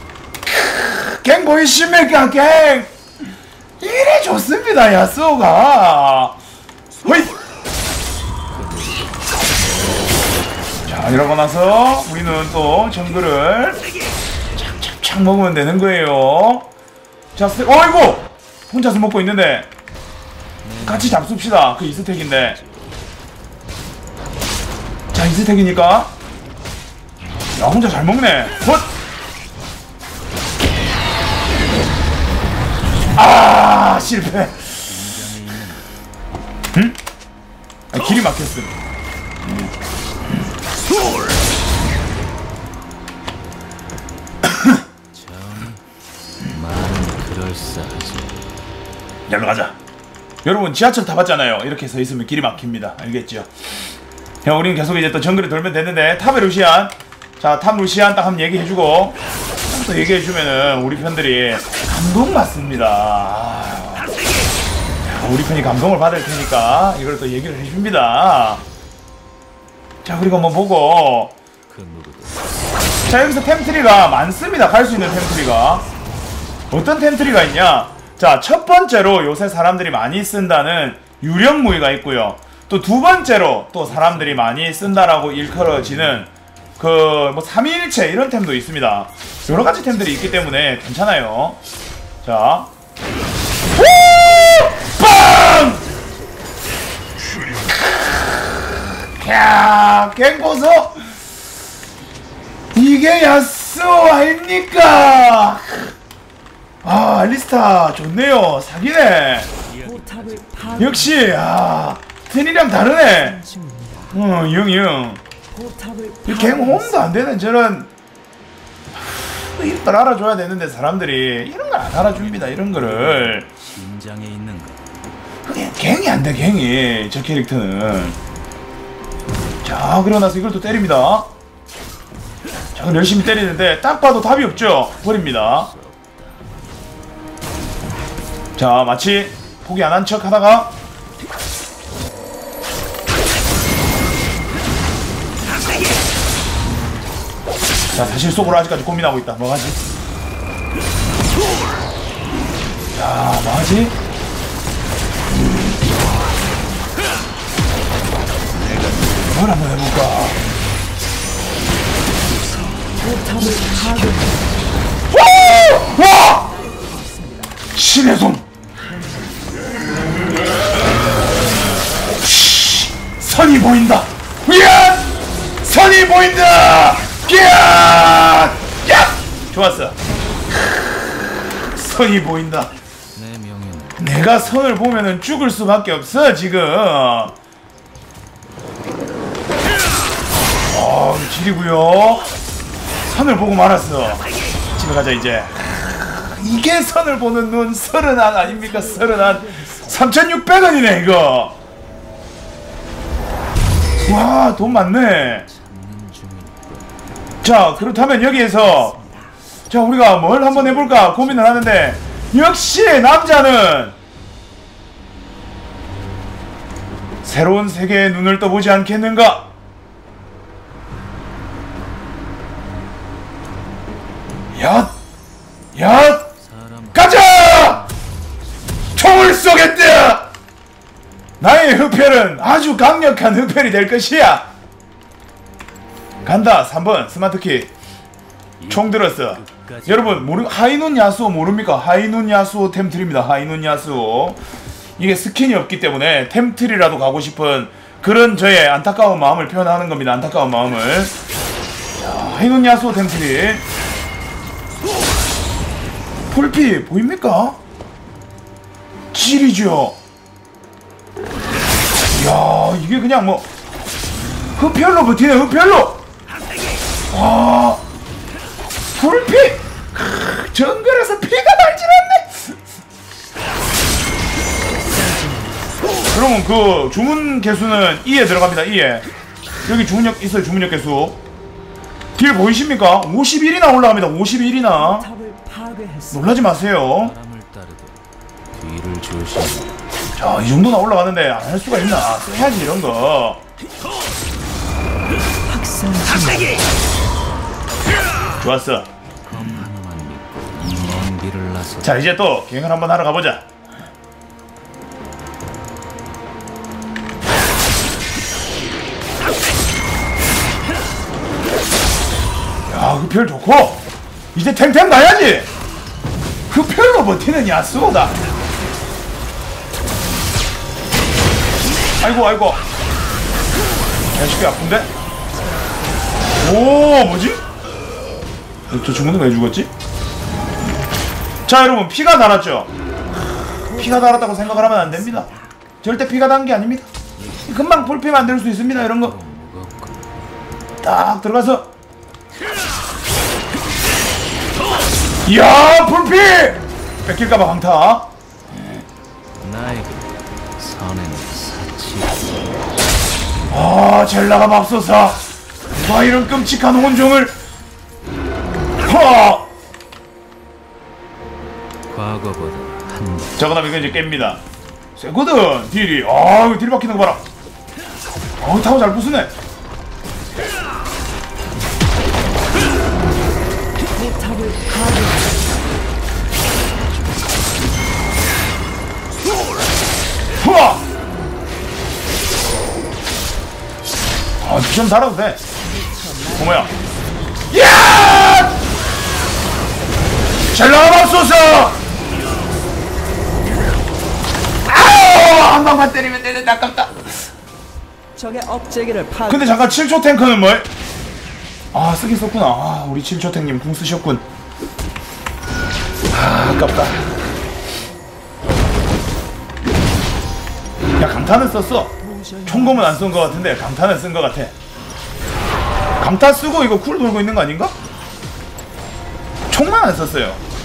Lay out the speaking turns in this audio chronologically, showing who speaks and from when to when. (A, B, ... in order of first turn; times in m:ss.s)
0:00.4-0:02.9 A
0:03.8-0:06.4 A
0:07.0-0:07.4 A
0:08.5-0:11.3 B
0:10.9-0:13.8 A
0:14.6-0:16.7 A
0:17.4-0:19.7 A
0:20.6-0:23.0 B
0:20.8-0:22.6 A
0:25.1-0:26.1 A
0:27.6-0:28.9 A
0:33.2-0:34.7 A
0:34.2-0:35.9 B
0:37.9-0:38.8 A
0:45.1-0:45.8 B
0:46.4-0:48.5 B
0:49.3-0:49.8 A
0:50.4-0:53.5 A
0:54.4-1:04.1 A
1:05.0-1:08.6 A
1:10.0-1:11.3 A
1:11.7-1:12.5 B
1:13.0-1:15.9 A
1:16.7-1:31.6 A
1:23.8-1:26.3 B
1:32.2-1:32.7 A
1:33.8-1:35.9 A
1:37.7-1:41.1 A
1:42.7-1:45.9 A
1:46.8-1:49.5 A
1:49.6-1:51.4 B
1:50.0-1:50.9 C
1:50.8-1:53.4 A
1:53.1-1:54.2 C
1:54.1-1:55.2 A
1:55.5-1:57.2 C
1:56.3-1:57.9 A
1:59.1-2:03.5 A
2:02.0-2:04.9 B
2:05.4-2:08.2 A
2:09.6-2:11.3 A
2:12.8-2:15.7 A
2:14.2-2:16.5 B
2:18.6-2:20.7 A
2:27.9-2:29.0 B
2:27.9-2:29.8 A
2:32.9-2:33.4 B
2:32.9-2:34.0 A
2:38.5-2:39.5 B
2:39.3-2:40.4 A
2:42.8-2:44.6 C
2:45.1-2:46.5 A
2:46.7-2:47.6 C
2:47.7-2:48.4 A
2:52.2-3:00.0 A
3:01.8-3:02.7 A
3:03.2-3:05.3 B
3:04.0-3:07.4 A
3:10.7-3:12.3 A
3:13.0-3:21.6 A
3:18.5-3:19.9 C
3:24.0-3:25.5 A
3:24.0-3:27.0 B
3:27.4-3:29.0 A
3:27.8-3:29.3 C
3:29.7-3:34.0 A
3:30.8-3:31.1 C
3:31.4-3:31.8 B
3:37.2-3:39.5 A
3:44.6-3:44.9 A
3:45.8-3:46.3 A
3:46.4-3:48.0 B
3:46.9-3:47.8 A
3:49.0-3:50.3 A
3:51.4-3:54.5 A
3:56.2-3:57.7 A
3:58.6-4:00.4 B
3:58.7-4:04.4 A
4:05.0-4:11.1 A
4:12.0-4:13.6 A
4:16.3-4:17.6 A
4:19.1-4:20.0 A
4:22.1-4:23.5 A
4:24.6-4:26.0 A
4:27.1-4:27.8 A
4:28.9-4:32.6 A
4:34.7-4:35.8 C
4:36.0-4:39.1 A
4:39.6-4:41.2 A
4:42.2-4:45.1 A
4:44.8-4:46.4 C
4:46.1-4:47.2 A
4:47.0-4:48.0 B
4:48.5-4:49.8 B
4:50.2-4:53.4 A
4:55.5-4:56.7 C
4:58.4-4:58.9 A
4:59.2-5:02.0 B
5:01.8-5:03.4 A
5:12.7-5:13.8 A
5:14.4-5:15.5 A
5:16.5-5:18.2 A
5:22.0-5:22.6 A
5:24.1-5:24.9 A
5:26.4-5:27.4 A
5:28.7-5:29.7 A
5:31.5-5:32.7 A
5:33.7-5:35.4 C
5:33.7-5:35.3 A
5:35.8-5:36.9 A
5:37.2-5:40.2 B
5:37.5-5:39.2 A
5:40.8-5:41.7 A
5:45.2-5:48.1 A
5:49.4-5:52.6 B
5:53.5-5:57.4 A
5:58.8-5:59.5 A
6:01.2-6:04.2 B
6:03.4-6:04.4 A
6:05.0-6:07.2 A
6:08.4-6:09.3 A
6:14.0-6:15.4 C
6:16.6-6:17.9 B
6:20.4-6:20.8 A
6:24.4-6:25.4 A
6:25.6-6:27.1 C
6:26.3-6:26.7 A
6:27.5-6:28.6 A
6:30.5-6:31.8 A
6:34.6-6:37.2 A
6:38.2-6:39.7 C
6:39.3-6:40.7 A
6:41.7-6:44.2 A
6:46.1-6:47.2 A
6:51.0-6:54.5 A
6:52.0-6:53.3 C
6:56.0-6:57.8 A
6:59.5-7:00.4 A